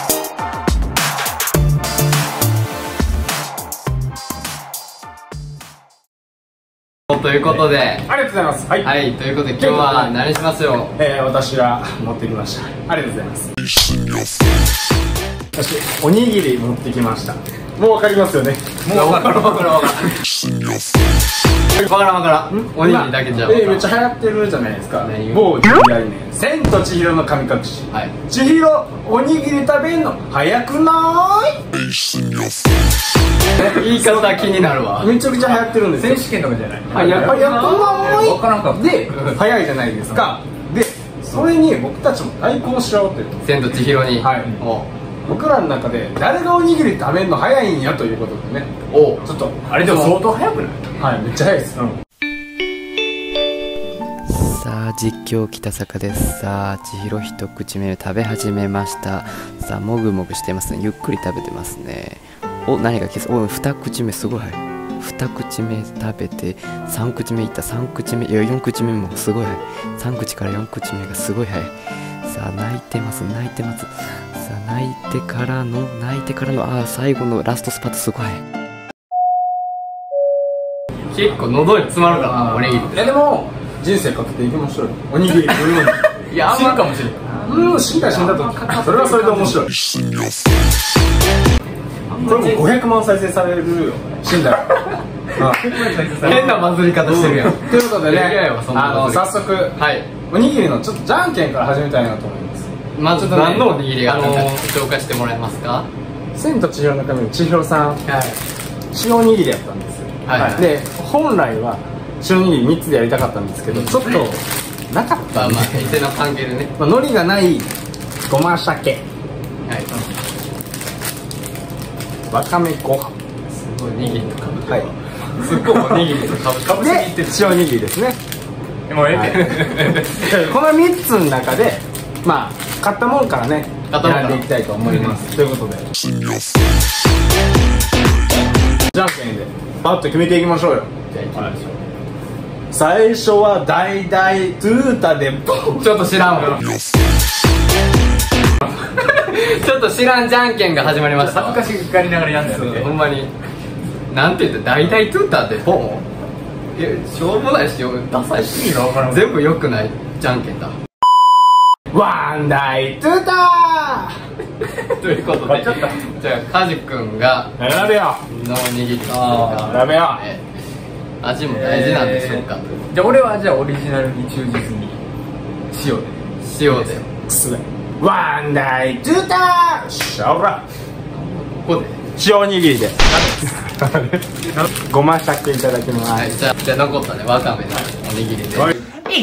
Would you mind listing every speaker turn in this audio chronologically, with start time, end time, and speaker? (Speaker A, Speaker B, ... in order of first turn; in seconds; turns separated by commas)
Speaker A: 7.1-8.1, Speaker B: 8.1-8.9, Speaker A: 8.8-10.9, Speaker B: 9.6-10.2, Speaker B: 11.0-13.5, Speaker B: 15.6-18.8, Speaker A: 18.9-20.2, Speaker C: 18.9-19.8, Speaker A: 21.8-23.9, Speaker B: 22.5-31.6, Speaker A: 25.0-25.4, Speaker A: 33.6-35.1, Speaker B: 33.6-34.5, Speaker B: 35.0-36.2, Speaker C: 35.9-39.1, Speaker A: 36.9-38.3, Speaker B: 36.9-43.4, Speaker A: 43.4-44.9, Speaker B: 44.2-44.6, Speaker B: 45.2-48.7, Speaker A: 48.9-49.2, Speaker B: 49.2-50.2, Speaker C: 49.7-51.0, Speaker B: 51.0-51.9, Speaker D: 54.3-71.7, Speaker D: 72.2-78.4, Speaker A: 81.1-83.0, Speaker C: 82.5-82.8, Speaker B: 82.9-86.0, Speaker C: 86.3-89.6, Speaker A: 86.3-86.8, Speaker B: 87.4-89.7, Speaker B: 92.2-104.5, Speaker C: 95.4-96.7, Speaker A: 96.1-100.1, Speaker A: 103.0-105.9, Speaker B: 106.3-108.0, Speaker A: 108.1-108.4, Speaker B: 108.9-116.0, Speaker A: 110.3-110.7, Speaker A: 113.7-114.2, Speaker A: 115.3-116.7, Speaker B: 116.8-117.7, Speaker B: 118.3-119.0, Speaker A: 119.6-119.9, Speaker B: 122.3-123.2, Speaker A: 123.5-127.0, Speaker B: 126.7-128.2, Speaker C: 127.0-127.4, Speaker C: 128.9-130.1, Speaker B: 129.1-129.5, Speaker A: 129.5-130.1, Speaker B: 130.1-135.9, Speaker A: 133.9-134.5, Speaker B: 138.9-140.9, Speaker A: 141.1-141.8, Speaker B: 142.7-145.8, Speaker A: 145.8-146.6, Speaker A: 148.9-151.7, Speaker C: 151.1-152.9, Speaker A: 152.4-153.3, Speaker A: 154.1-156.1, Speaker A: 156.8-160.7, Speaker C: 158.6-159.3, Speaker B: 161.9-164.2, Speaker A: 164.7-167.7, Speaker B: 165.5-166.0, Speaker B: 167.6-168.2, Speaker A: 168.3-170.4, Speaker C: 169.1-169.8, Speaker B: 169.5-170.2, Speaker A: 171.2-172.8, Speaker C: 171.6-175.0, Speaker C: 175.7-176.2, Speaker A: 176.4-177.1, Speaker B: 177.3-180.6, Speaker A: 181.1-182.0, Speaker B: 182.2-186.4, Speaker C: 183.2-183.6, Speaker A: 186.2-188.8